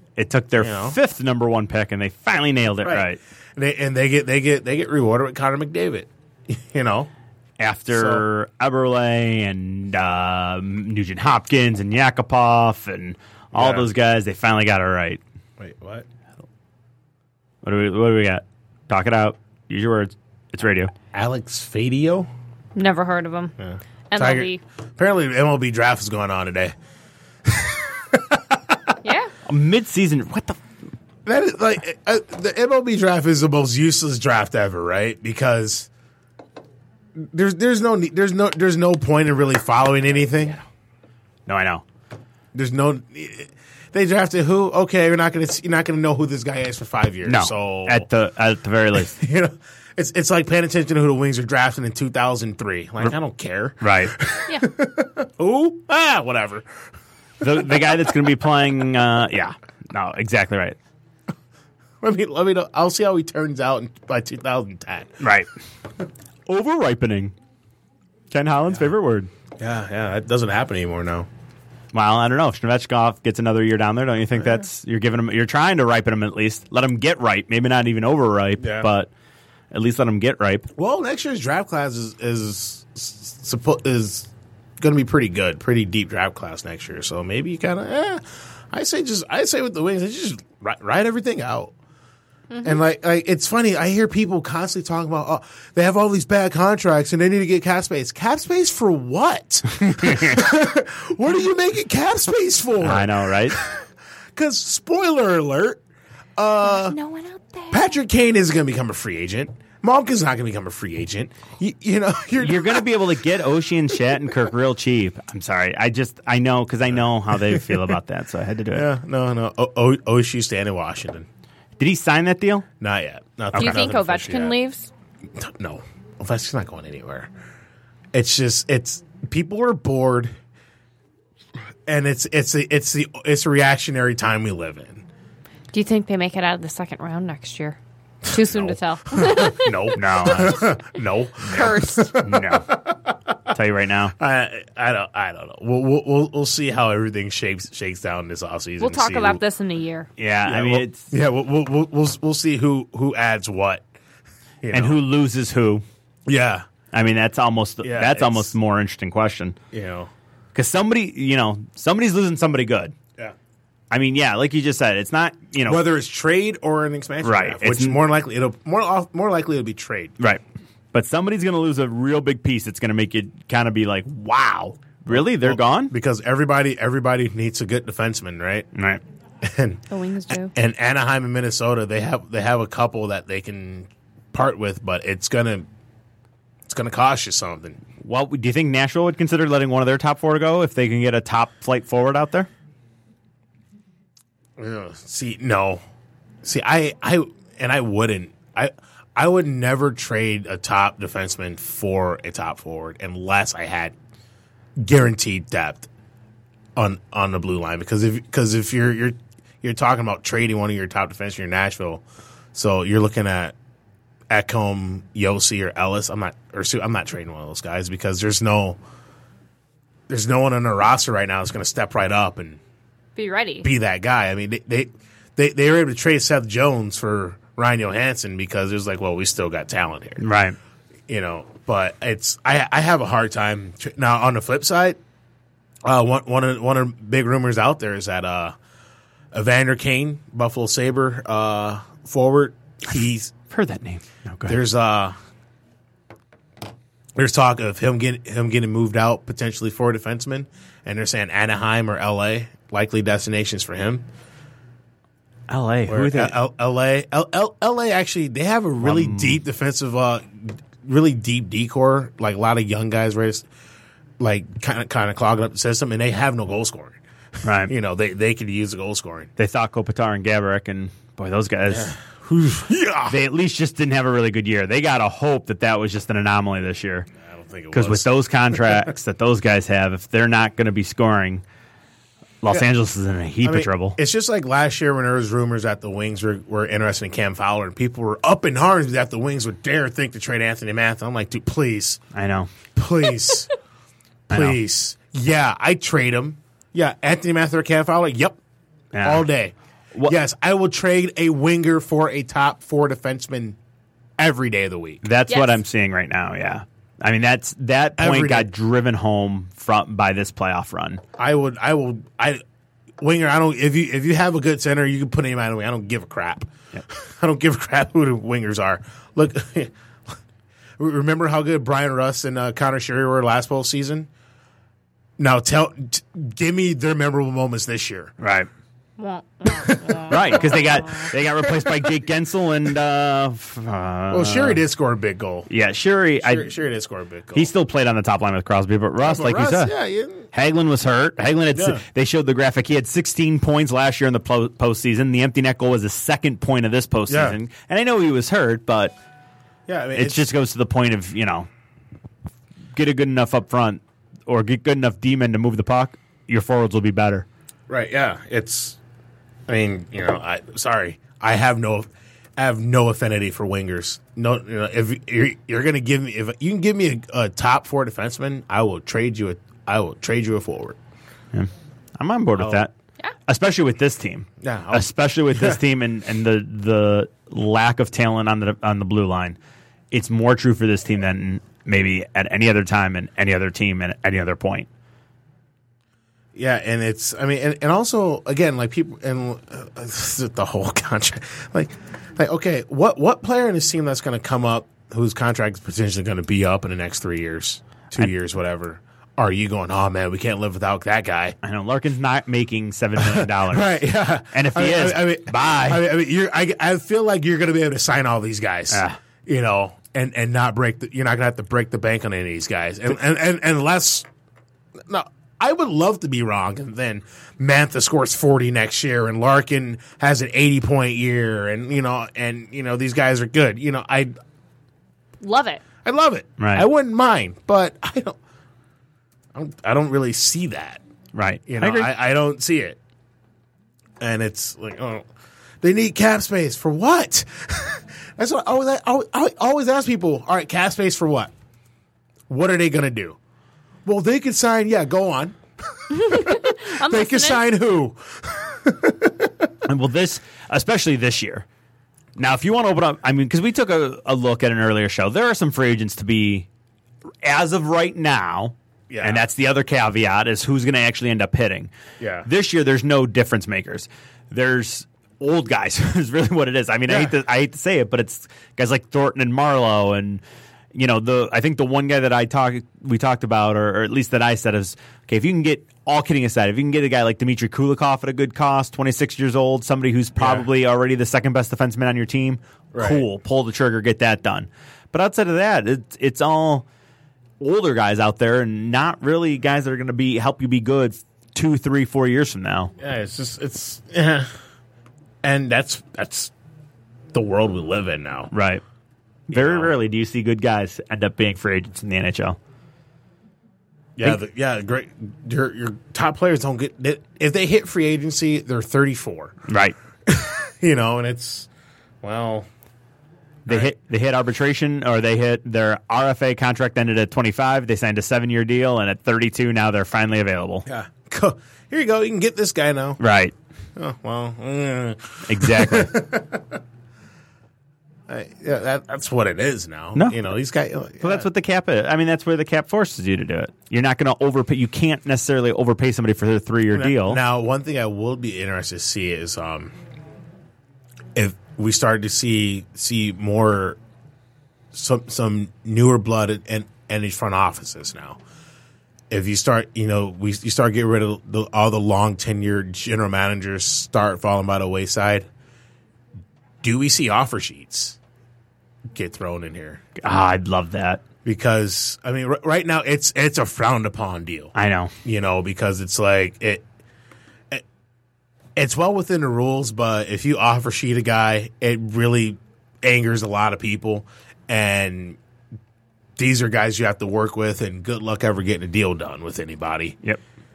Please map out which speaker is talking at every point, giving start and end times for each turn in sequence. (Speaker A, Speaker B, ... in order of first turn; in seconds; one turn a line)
Speaker A: 0.2-3.2
Speaker B: 0.6-1.0
Speaker B: 2.8-7.1
Speaker A: 7.6-15.2
Speaker B: 7.9-8.2
Speaker B: 13.5-13.9
Speaker B: 15.6-16.1
Speaker A: 17.6-20.9
Speaker B: 21.1-22.3
Speaker C: 22.7-23.5
Speaker B: 23.6-26.7
Speaker C: 24.1-24.6
Speaker B: 27.4-28.9
Speaker C: 29.0-29.3
Speaker A: 29.4-30.6
Speaker B: 31.2-35.9
Speaker B: 37.1-40.6
Speaker A: 41.5-41.8
Speaker B: 42.5-48.1
Speaker A: 47.2-49.2
Speaker B: 49.1-56.7
Speaker A: 53.8-54.1
Speaker A: 57.4-60.8
Speaker B: 57.4-57.9
Speaker B: 62.0-65.2
Speaker A: 65.2-65.5
Speaker A: 66.5-67.3
Speaker A: 68.3-69.3
Speaker B: 69.6-71.3
Speaker A: 71.9-79.1
Speaker B: 78.6-78.9
Speaker A: 79.7-80.7
Speaker B: 80.8-91.7
Speaker B: 92.6-105.8
Speaker A: 99.7-100.4
Speaker A: 102.8-103.6
Speaker B: 106.4-107.0
Speaker C: 106.6-107.9
Speaker B: 107.7-112.9
Speaker A: 112.4-118.9
Speaker B: 116.9-117.8
Speaker B: 118.7-121.3
Speaker A: 121.8-122.7
Speaker B: 122.8-124.6
Speaker C: 123.5-124.9
Speaker B: 125.3-127.3
Speaker B: 128.1-130.3
Speaker B: 131.9-135.0
Speaker C: 135.7-139.9
Speaker B: 138.2-143.3
Speaker A: 139.9-140.7
Speaker C: 141.4-142.2
Speaker A: 142.2-142.7
Speaker A: 143.5-144.1
Speaker B: 144.2-149.4
Speaker C: 148.8-150.1
Speaker A: 150.2-151.1
Speaker B: 150.4-153.8
Speaker B: 154.6-155.0
Speaker A: 154.7-155.8
Speaker B: 156.3-156.7
Speaker A: 156.9-159.6
Speaker B: 157.8-158.5
Speaker B: 159.7-160.1
Speaker A: 160.5-162.9
Speaker A: 163.9-165.8
Speaker B: 165.6-170.2
Speaker A: 167.2-168.0
Speaker A: 170.9-175.9
Speaker B: 175.1-178.7
Speaker A: 178.7-179.0
Speaker B: 179.4-185.7
Speaker C: 179.9-180.5
Speaker B: 186.7-187.8
Speaker A: 188.0-192.5
Speaker B: 194.6-195.8
Speaker B: 196.4-203.9
Speaker B: 204.8-205.9
Speaker B: 206.8-213.5
Speaker B: 214.3-218.8
Speaker B: 220.1-222.6
Speaker C: 223.2-223.7
Speaker B: 223.6-230.2
Speaker A: 230.2-230.6
Speaker B: 231.1-235.0
Speaker B: 235.8-238.6
Speaker B: 239.3-243.3
Speaker A: 243.5-244.6
Speaker B: 244.5-245.1
Speaker B: 247.2-254.0
Speaker A: 255.5-256.4
Speaker B: 255.9-263.4
Speaker A: 258.8-259.4
Speaker B: 264.2-267.0
Speaker A: 267.4-267.7
Speaker B: 267.6-269.3
Speaker A: 269.4-271.9
Speaker B: 271.7-273.2
Speaker A: 273.1-277.1
Speaker B: 277.2-278.8
Speaker A: 277.7-281.4
Speaker A: 282.4-284.0
Speaker B: 283.4-292.0
Speaker A: 292.1-292.5
Speaker B: 292.7-293.5
Speaker A: 294.3-294.6
Speaker B: 294.3-298.4
Speaker A: 298.9-299.2
Speaker B: 299.0-303.6
Speaker B: 304.2-305.0
Speaker A: 305.0-311.0
Speaker C: 305.3-305.6
Speaker B: 308.0-308.5
Speaker B: 311.2-312.4
Speaker B: 313.0-319.7
Speaker B: 320.8-324.1
Speaker B: 325.2-328.1
Speaker A: 328.2-328.5
Speaker C: 329.0-331.1
Speaker B: 329.6-330.4
Speaker A: 330.1-334.6
Speaker B: 334.1-335.5
Speaker A: 335.5-336.5
Speaker B: 336.2-337.5
Speaker A: 337.3-339.7
Speaker B: 339.0-340.2
Speaker A: 340.3-348.9
Speaker B: 341.5-341.8
Speaker B: 347.1-347.4
Speaker B: 349.7-350.3
Speaker A: 349.9-351.5
Speaker A: 352.7-357.2
Speaker B: 357.7-358.8
Speaker B: 359.5-370.8
Speaker A: 371.3-372.7
Speaker B: 372.4-372.7
Speaker A: 373.3-379.4
Speaker B: 374.4-375.6
Speaker A: 379.9-384.7
Speaker B: 386.3-401.4
Speaker A: 401.4-403.8
Speaker B: 403.0-414.1
Speaker A: 404.3-405.9
Speaker A: 408.7-409.0
Speaker B: 414.9-424.1
Speaker C: 425.2-425.6
Speaker B: 425.8-428.2
Speaker A: 426.4-426.6
Speaker B: 429.3-430.8
Speaker A: 431.1-431.9
Speaker B: 431.5-432.8
Speaker B: 434.0-435.0
Speaker B: 435.6-441.3
Speaker B: 442.3-443.2
Speaker B: 443.8-449.5
Speaker C: 445.9-447.4
Speaker A: 449.6-451.4
Speaker A: 452.2-456.5
Speaker A: 457.2-461.7
Speaker B: 458.9-459.2
Speaker B: 462.0-462.3
Speaker A: 462.2-470.2
Speaker B: 466.9-467.1
Speaker A: 470.7-486.6
Speaker B: 480.2-480.4
Speaker B: 482.7-483.0
Speaker A: 487.4-492.7
Speaker B: 492.8-494.3
Speaker B: 495.2-496.3
Speaker B: 497.1-498.3
Speaker A: 498.3-498.6
Speaker A: 499.3-502.4
Speaker B: 499.3-499.7
Speaker B: 504.0-509.4
Speaker A: 509.5-509.8
Speaker B: 510.1-511.5
Speaker B: 512.0-512.5
Speaker A: 513.5-520.7
Speaker B: 513.5-513.7
Speaker B: 520.6-523.0
Speaker A: 523.0-523.3
Speaker B: 523.8-526.6
Speaker A: 525.2-526.0
Speaker B: 528.1-531.3
Speaker A: 531.0-537.2
Speaker B: 536.7-539.7
Speaker B: 541.1-543.8
Speaker B: 544.7-548.2
Speaker B: 549.1-555.3
Speaker B: 556.6-558.0
Speaker B: 558.9-559.8
Speaker A: 560.0-561.0
Speaker B: 561.2-564.5
Speaker A: 564.5-564.9
Speaker B: 565.0-566.6
Speaker B: 568.5-575.2
Speaker B: 576.2-580.0